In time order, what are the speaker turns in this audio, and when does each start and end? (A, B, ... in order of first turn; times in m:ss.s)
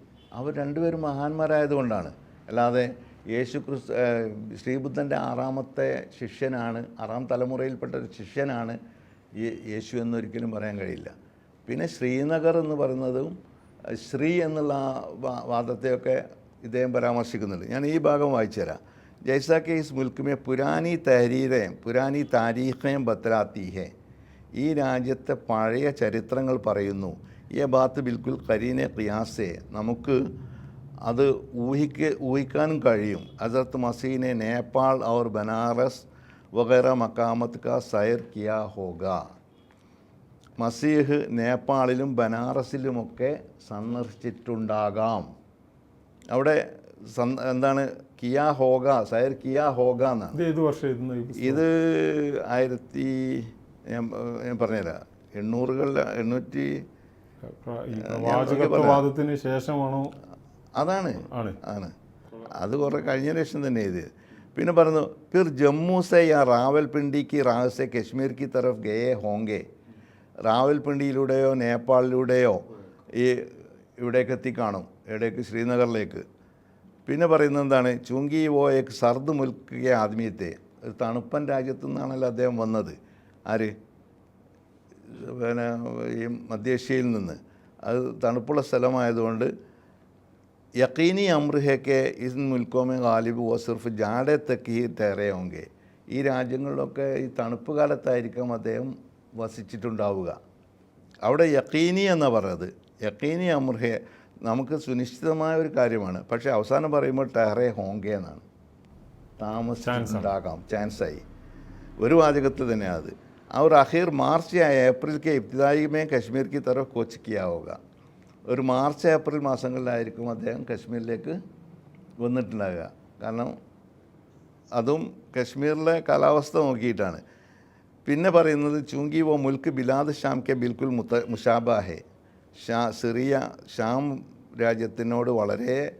0:00.4-0:08.8 A
0:09.4-0:11.1 A
0:11.7-0:13.3 A
0:13.9-0:23.9 A
0:24.6-0:30.2 A
0:31.0-0:39.3 A
0:40.6-0:45.3 A
0:46.3-0:50.4 A
0:50.3-0:51.6 B
0:51.4-0:56.8 A
0:57.4-1:00.1 B
0:58.0-0:59.0 A
1:00.8-1:09.6 A
1:01.3-1:01.6 B
1:10.4-1:16.2 A
1:17.0-1:23.0 A
1:25.1-1:29.5 A
1:30.8-1:40.4 A
1:41.2-1:48.4 A
1:49.4-1:51.2 A
1:49.8-1:50.3 B
1:52.0-1:57.8 A
1:58.5-2:01.4 A
2:02.2-2:03.5 A
2:04.8-2:07.2 A
2:08.0-2:12.0 A
2:12.6-2:15.8 A